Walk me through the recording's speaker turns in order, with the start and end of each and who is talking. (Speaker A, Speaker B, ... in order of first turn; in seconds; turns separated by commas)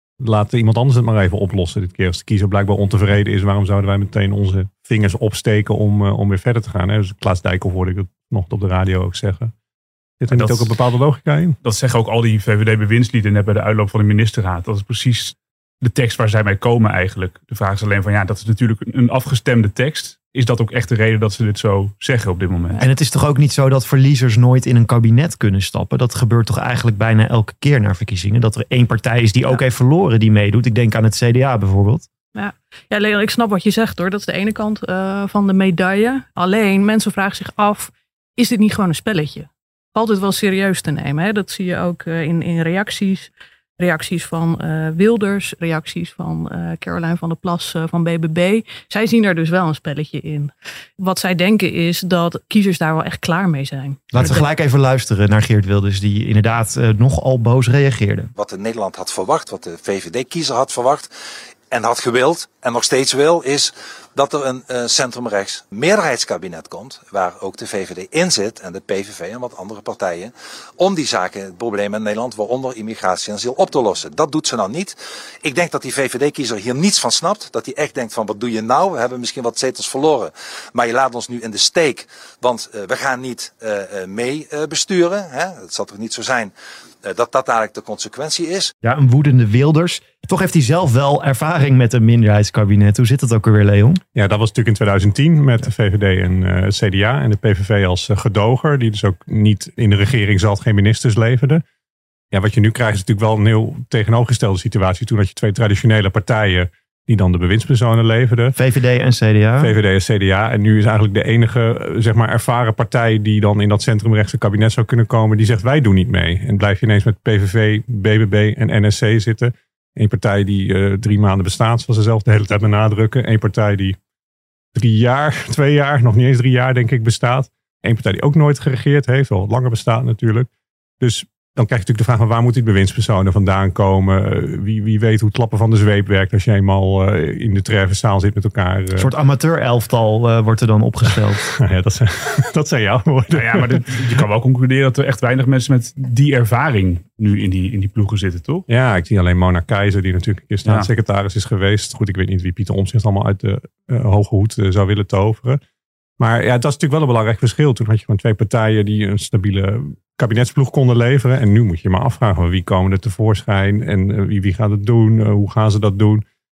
Speaker A: 0.2-9.5, Speaker A: 10.2-11.6, Speaker B: 10.3-10.8, Speaker B: 11.6-22.8, Speaker C: 22.8-32.1, Speaker D: 32.3-54.5, Speaker C: 54.1-58.3, Speaker E: 58.4-61.1, Speaker E: 61.7-86.5, Speaker E: 87.0-88.7, Speaker C: 88.8-94.0, Speaker A: 94.1-101.6, Speaker A: 102.3-108.5, Speaker C: 108.5-109.8, Speaker A: 109.6-124.0, Speaker A: 124.7-130.5, Speaker A: 131.0-139.1, Speaker C: 138.9-141.5, Speaker A: 141.6-144.2, Speaker B: 143.3-148.7, Speaker A: 148.7-155.6, Speaker B: 150.6-150.9, Speaker A: 156.2-166.2